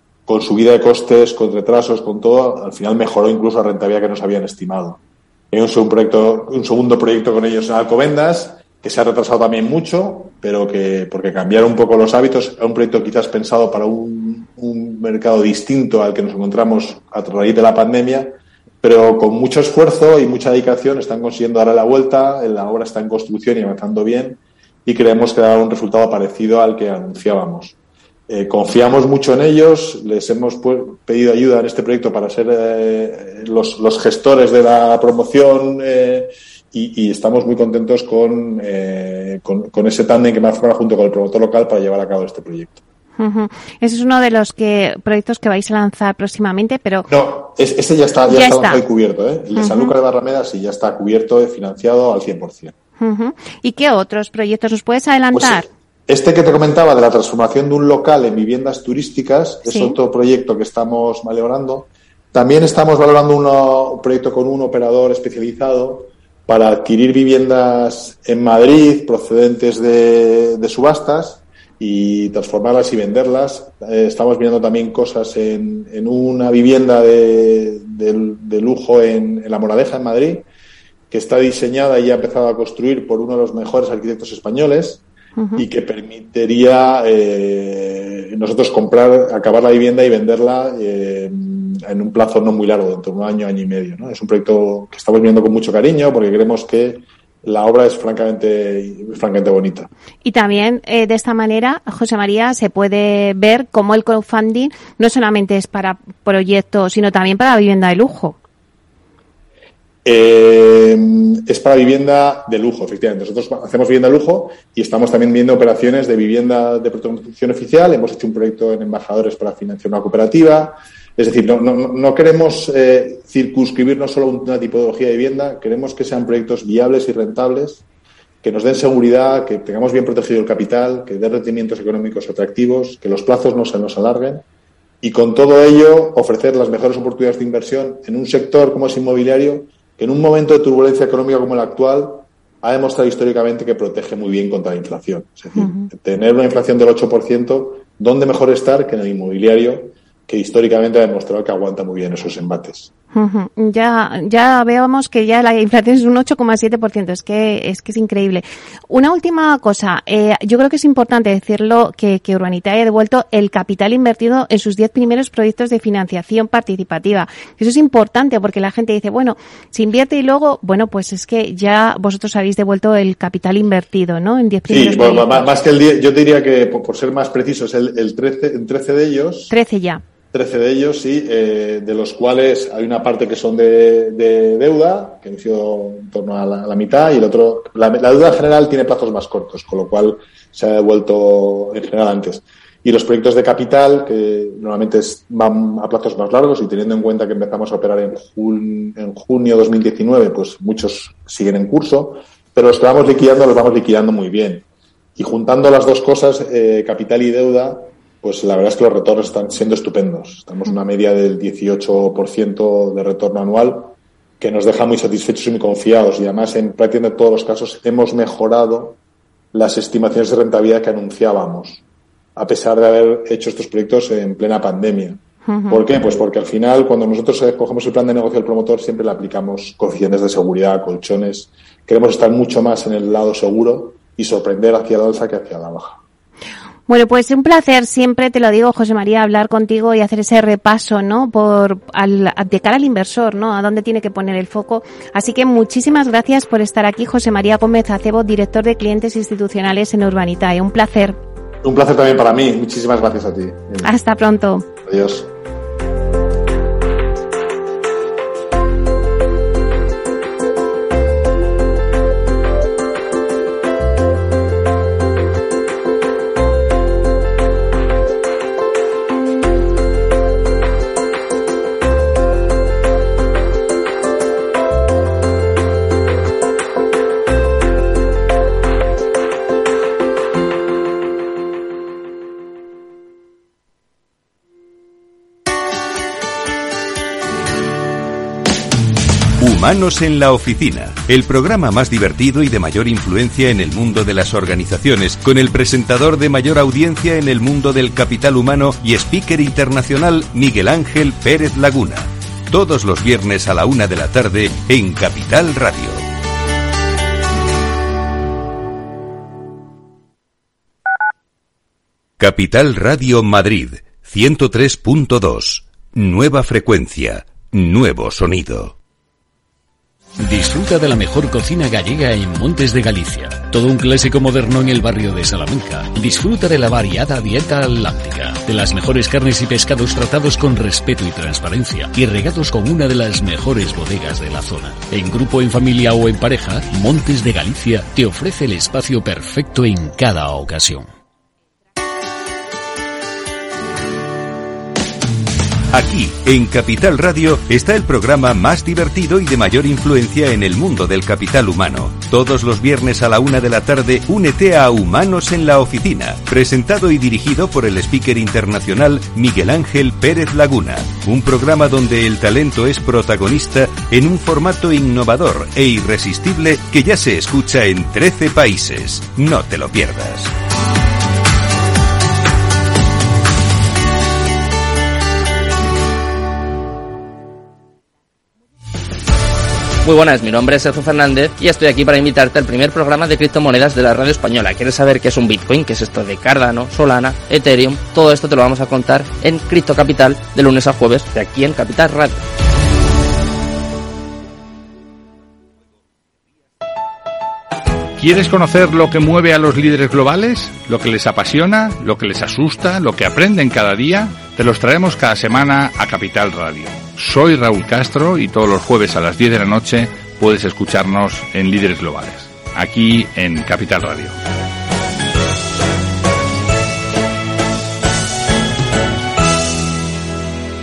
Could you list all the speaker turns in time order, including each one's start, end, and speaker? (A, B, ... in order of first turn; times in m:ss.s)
0:00.3-0:27.8 A
0:28.3-0:42.8 A
0:43.2-0:47.1 B
0:47.1-0:52.7 A
0:48.3-0:48.8 B
0:49.6-0:49.9 B
0:53.0-0:55.7 B
0:55.3-1:20.5 A
0:59.7-1:00.0 B
1:21.1-1:25.0 A
1:25.4-1:25.7 B
1:25.6-1:39.9 A
1:40.2-1:48.4 B
1:50.0-2:07.8 A
2:08.4-2:14.4 A
2:15.0-2:32.9 A
2:25.6-2:25.9 B
2:33.1-2:55.5 B
2:54.7-2:59.5 A
2:59.5-3:00.0 B
3:00.3-3:24.7 A
3:25.2-3:39.0 A
3:39.5-3:41.8 A
3:42.4-3:56.0 A
3:45.5-3:46.2 B
3:56.9-4:11.2 B
4:11.6-4:13.9 A
4:13.8-4:14.7 B
4:14.8-4:15.3 A
4:49.4-5:06.0 C
5:12.2-5:18.8 C
5:20.2-5:40.9 D
5:45.7-6:10.3 C
6:19.8-6:32.2 E
6:38.0-6:54.2 F